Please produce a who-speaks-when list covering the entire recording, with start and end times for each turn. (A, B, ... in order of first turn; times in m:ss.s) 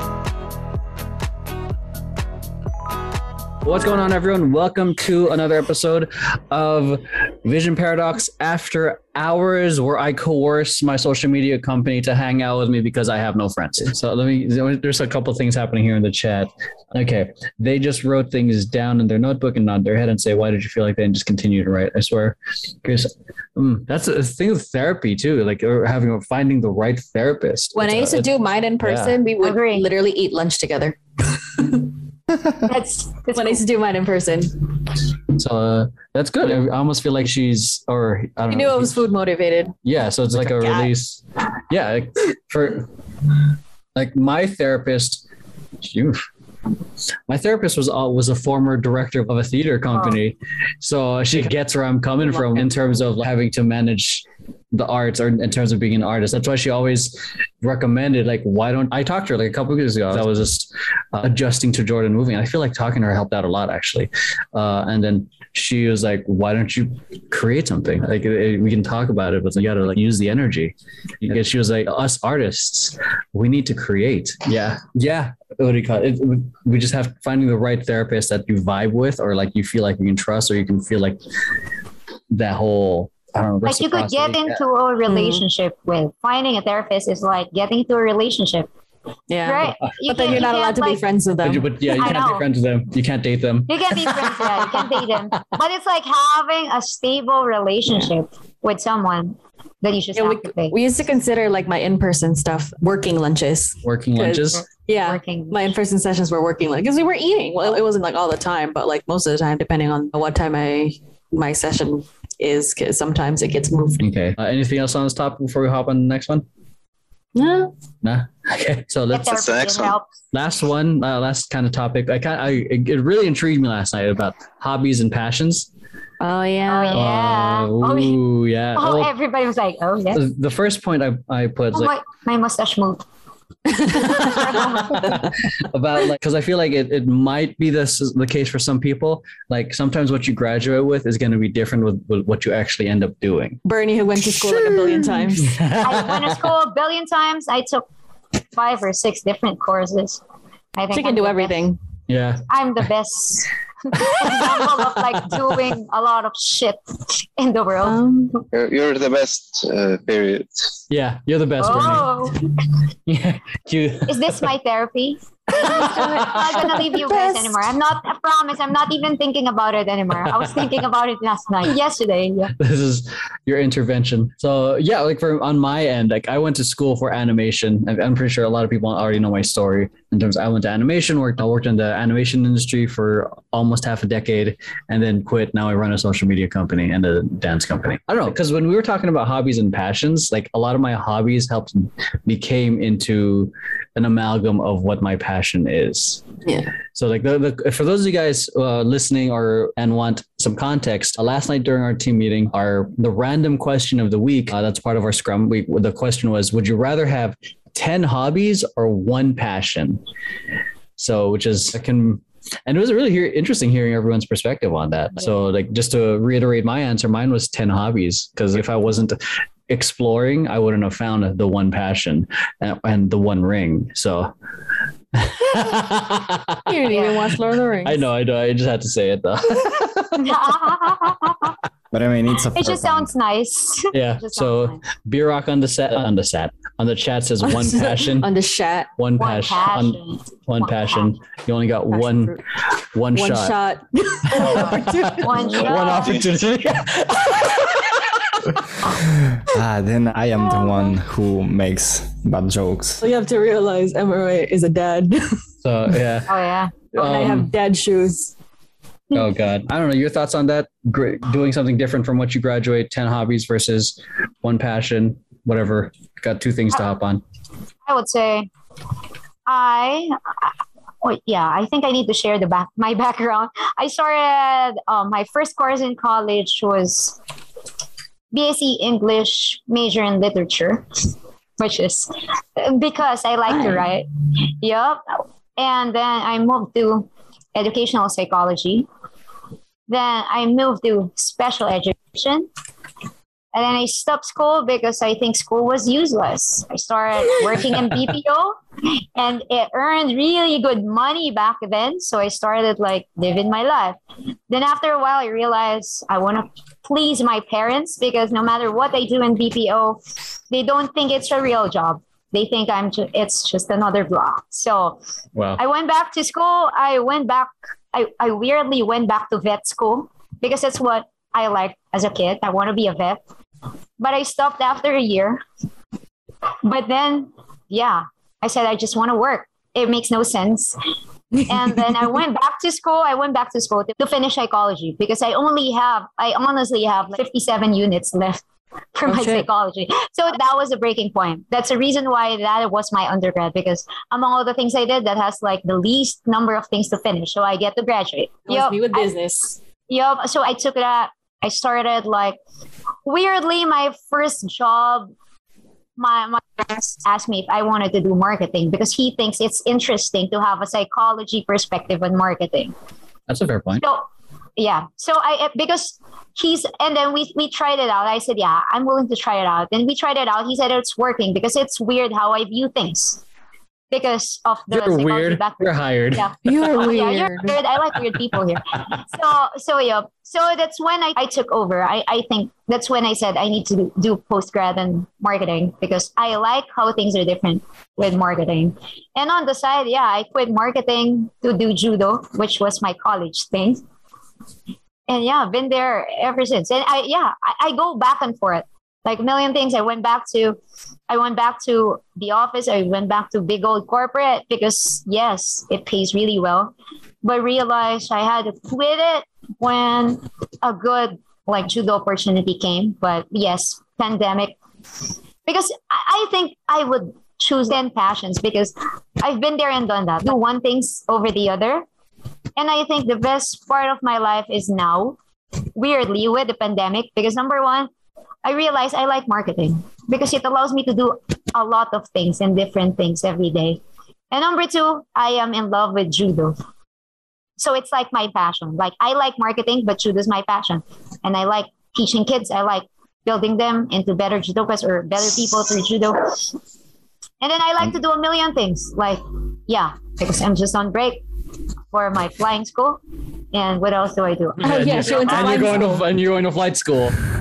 0:03.6-0:29.2 A
0:27.8-0:31.9 B
0:29.4-0:29.9 C
0:32.6-0:33.6 C
0:33.3-0:34.6 B
0:35.3-0:39.0 A
0:38.5-0:39.8 B
0:39.8-0:42.9 A
0:40.3-0:40.9 B
0:44.0-0:45.2 A
0:45.8-0:46.2 A
0:47.3-1:21.2 A
0:52.3-0:52.6 B
1:22.3-1:24.6 A
1:23.6-1:28.7 C
1:25.1-1:25.4 B
1:29.3-1:32.2 B
1:29.4-1:31.0 C
1:31.4-1:34.7 A
1:32.0-1:32.4 C
1:33.7-1:40.8 C
1:40.2-1:54.1 B
1:43.8-1:44.6 A
1:45.0-1:45.7 C
1:54.0-1:56.4 A
1:57.4-1:57.7 B
1:58.0-1:59.5 A
1:59.1-2:00.1 C
1:59.3-2:00.0 D
2:00.3-2:05.7 A
2:06.2-2:07.1 B
2:06.7-2:08.2 C
2:06.9-2:09.1 A
2:08.8-2:10.2 C
2:10.1-2:11.9 A
2:11.7-2:13.0 C
2:13.7-2:15.2 B
2:14.2-2:15.1 C
2:14.3-2:23.6 A
2:23.6-2:25.6 B
2:24.5-2:26.5 A
2:25.8-2:27.8 C
2:28.6-2:30.2 C
2:30.8-2:31.6 C
2:30.9-2:31.8 B
2:32.1-2:32.4 A
2:32.5-2:38.4 C
2:37.8-2:38.4 B
2:38.5-2:40.8 D
2:40.9-2:42.1 A
2:41.6-2:42.4 C
2:43.1-2:44.5 A
2:44.1-2:52.5 C
2:45.6-2:46.7 A
2:45.7-2:47.7 B
2:50.1-2:50.8 A
2:52.6-3:16.2 A
3:16.9-3:30.0 A
3:31.0-3:44.3 A
3:45.2-3:46.9 A
3:46.7-3:48.0 B
3:46.9-3:47.2 C
3:47.8-3:50.4 A
3:50.2-3:51.5 C
3:51.9-3:53.1 E
3:52.5-3:54.8 C
3:53.9-3:58.3 A
3:57.4-3:58.9 B
3:59.0-4:02.4 A
3:59.2-4:01.1 C
4:01.9-4:02.4 B
4:02.9-4:03.6 A
4:03.1-4:05.6 B
4:04.2-4:08.0 A
4:05.2-4:06.3 C
4:05.4-4:06.3 D
4:09.1-4:13.0 E
4:13.0-4:15.4 B
4:15.6-4:16.3 A
4:16.3-4:16.7 C
4:16.9-4:17.5 A
4:17.0-4:18.3 B
4:19.1-4:27.2 A
4:27.9-4:28.5 C
4:29.5-4:30.3 C
4:31.0-4:37.2 C
4:38.3-4:40.9 C
4:41.6-4:44.1 C
4:44.6-4:48.9 C
4:49.9-4:52.5 C
4:53.5-4:58.6 C
4:59.2-5:04.0 C
5:04.5-5:10.0 C
5:10.5-5:15.0 C
5:15.4-5:15.6 A
5:15.6-5:23.2 C
5:24.0-5:25.4 C
5:26.6-5:30.8 C
5:31.4-5:38.4 C
5:39.0-5:49.1 C
5:39.1-5:39.5 B
5:48.5-5:49.6 B
5:49.9-5:52.4 C
5:53.0-5:55.1 C
5:56.0-6:02.8 C
6:03.3-6:03.8 A
6:03.8-6:13.2 C
6:13.9-6:33.8 C
6:14.7-6:16.3 A
6:16.4-6:17.6 B
6:35.1-6:54.6 C
6:55.5-7:01.8 C
7:02.6-7:05.2 C
7:05.8-7:07.9 C
7:08.4-7:13.8 C
7:14.3-7:16.6 C
7:17.6-7:26.4 C
7:27.4-7:31.2 C
7:31.9-7:33.0 C
7:33.5-7:35.8 C
7:34.6-7:37.2 A
7:34.6-7:36.0 B